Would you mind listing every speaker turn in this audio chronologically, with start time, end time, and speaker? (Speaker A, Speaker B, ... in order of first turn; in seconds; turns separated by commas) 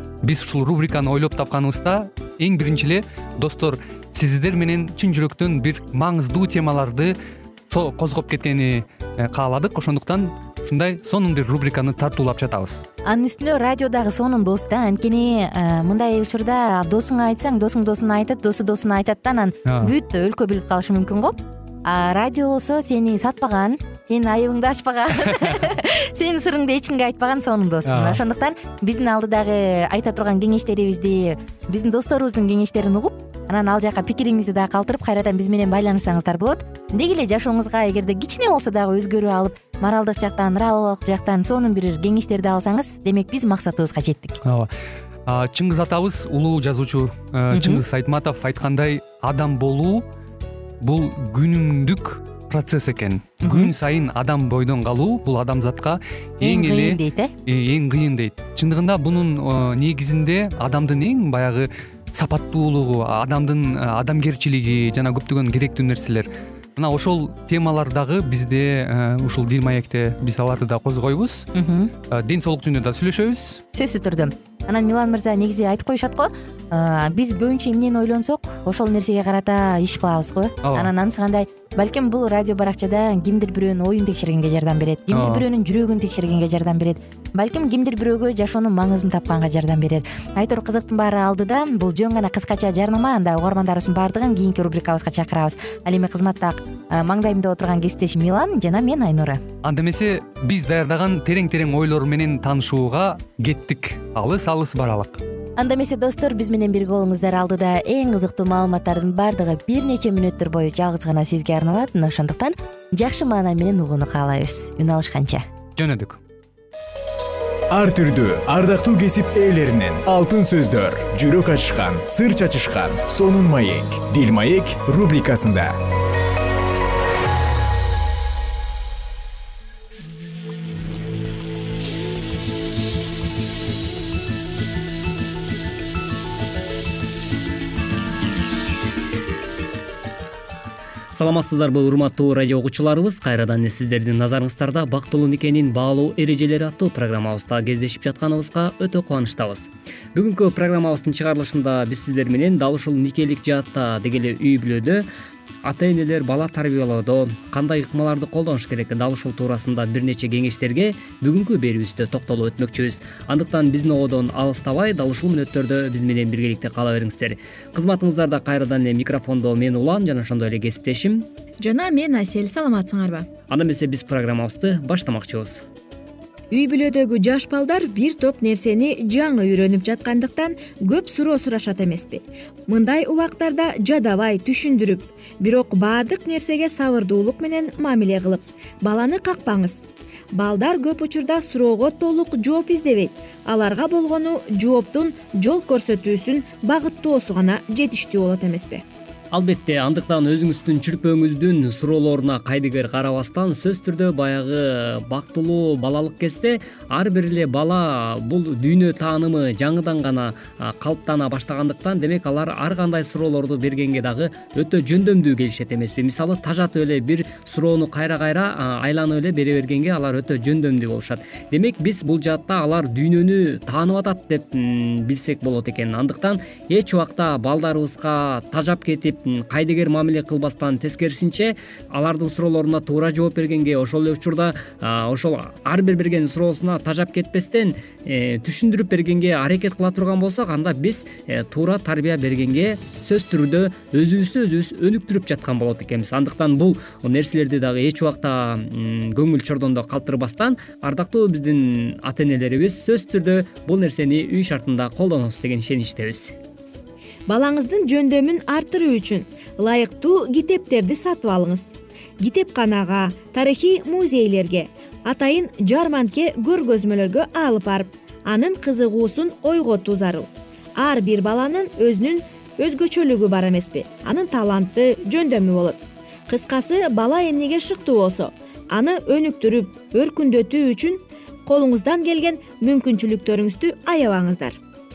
Speaker A: 0.2-7.1, Speaker A: 7.7-12.8, Speaker B: 13.0-44.4, Speaker A: 19.7-19.9, Speaker A: 27.9-28.2, Speaker A: 44.4-44.7, Speaker A: 45.2-50.0, Speaker B: 47.5-47.8, Speaker A: 50.8-71.5, Speaker B: 53.4-53.7, Speaker B: 56.4-57.3, Speaker B: 71.5-71.9, Speaker A: 72.1-73.6, Speaker B: 73.7-99.4, Speaker A: 80.6-80.9, Speaker A: 85.1-85.4, Speaker A: 99.6-105.2, Speaker B: 105.6-115.4, Speaker A: 115.8-116.2, Speaker C: 117.7-125.7, Speaker D: 141.1-155.0, Speaker D: 155.6-171.3, Speaker E: 171.6-173.3, Speaker D: 173.5-175.6, Speaker E: 176.5-198.8, Speaker D: 199.3-256.3, Speaker E: 257.3-284.6